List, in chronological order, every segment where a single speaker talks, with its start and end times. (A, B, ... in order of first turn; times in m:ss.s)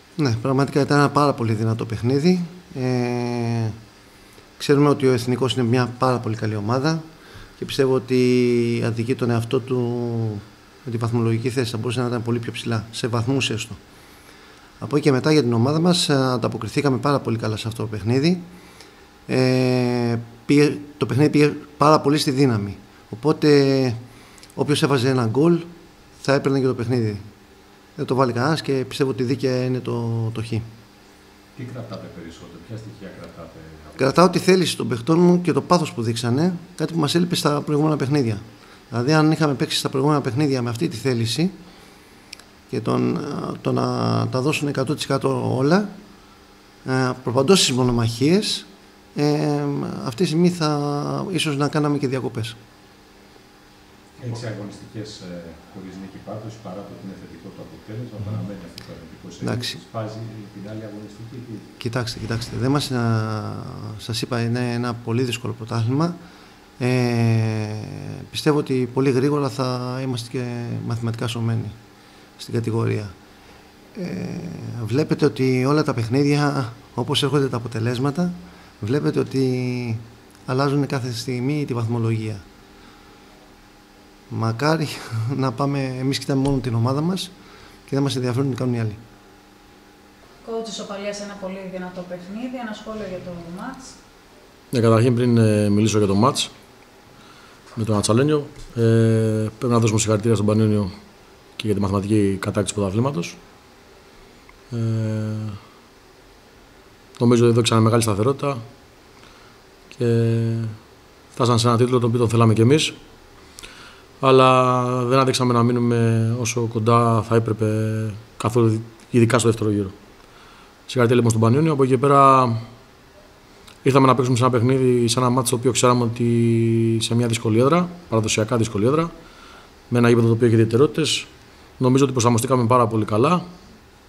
0:00.2-0:03.7 A
0:04.6-0:07.0 A
0:07.6-0:13.8 A
0:14.8-0:18.4 A
0:19.3-0:24.0 A
0:24.6-0:25.7 A
0:26.2-0:27.2 A
0:28.0-0:30.6 A
0:31.6-0:34.1 B
0:34.0-0:41.5 A
0:42.7-0:45.9 A
0:46.8-0:52.6 A
0:54.2-1:01.7 B
0:59.4-0:59.8 A
1:01.8-1:06.2 A
1:06.8-1:11.8 A
1:12.4-1:13.1 A
1:14.0-1:22.4 A
1:24.3-1:27.3 A
1:27.9-1:29.0 A
1:30.4-1:34.0 C
1:34.7-1:36.5 D
1:37.8-1:40.9 D
1:41.6-1:43.4 D
1:44.7-1:45.6 D
1:47.2-1:48.6 D
1:49.9-1:50.8 D
1:51.3-1:53.0 D
1:54.2-1:59.9 D
2:00.9-2:02.6 D
2:03.8-2:09.1 D
2:09.9-2:13.4 D